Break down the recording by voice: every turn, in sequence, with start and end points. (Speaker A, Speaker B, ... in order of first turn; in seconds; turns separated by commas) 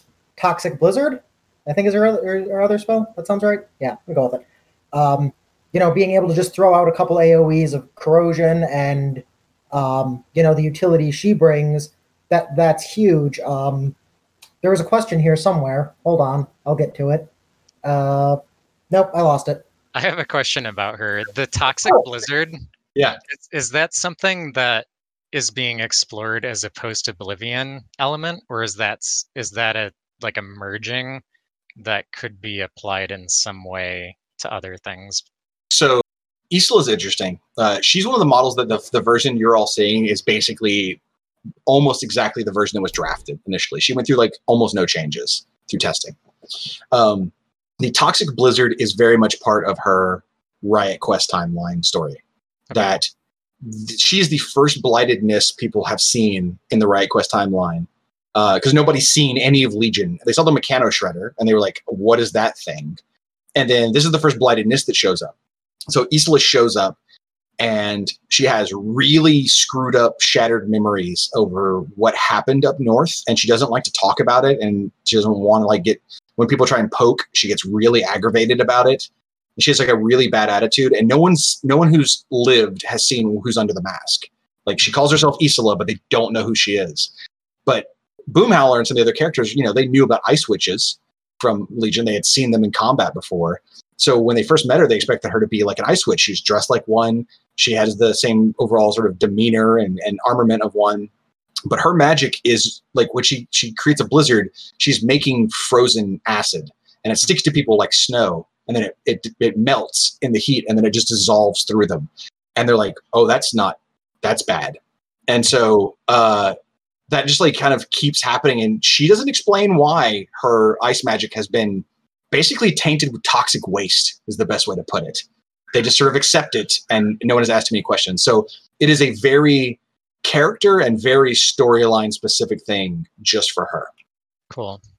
Speaker A: 0.4-13.9, Speaker A: 14.6-17.3, Speaker A: 17.8-18.4, Speaker A: 18.9-19.6, Speaker B: 19.9-22.6, Speaker B: 23.3-31.2, Speaker B: 31.8-35.2, Speaker C: 35.7-41.0, Speaker C: 41.6-46.1, Speaker C: 46.9-52.2, Speaker B: 52.7-53.0, Speaker C: 52.7-53.1, Speaker C: 53.6-63.0, Speaker C: 63.5-65.3, Speaker C: 65.9-67.0, Speaker C: 67.6-87.1, Speaker C: 87.7-101.1, Speaker C: 101.7-116.5, Speaker C: 117.1-133.9, Speaker B: 134.5-134.8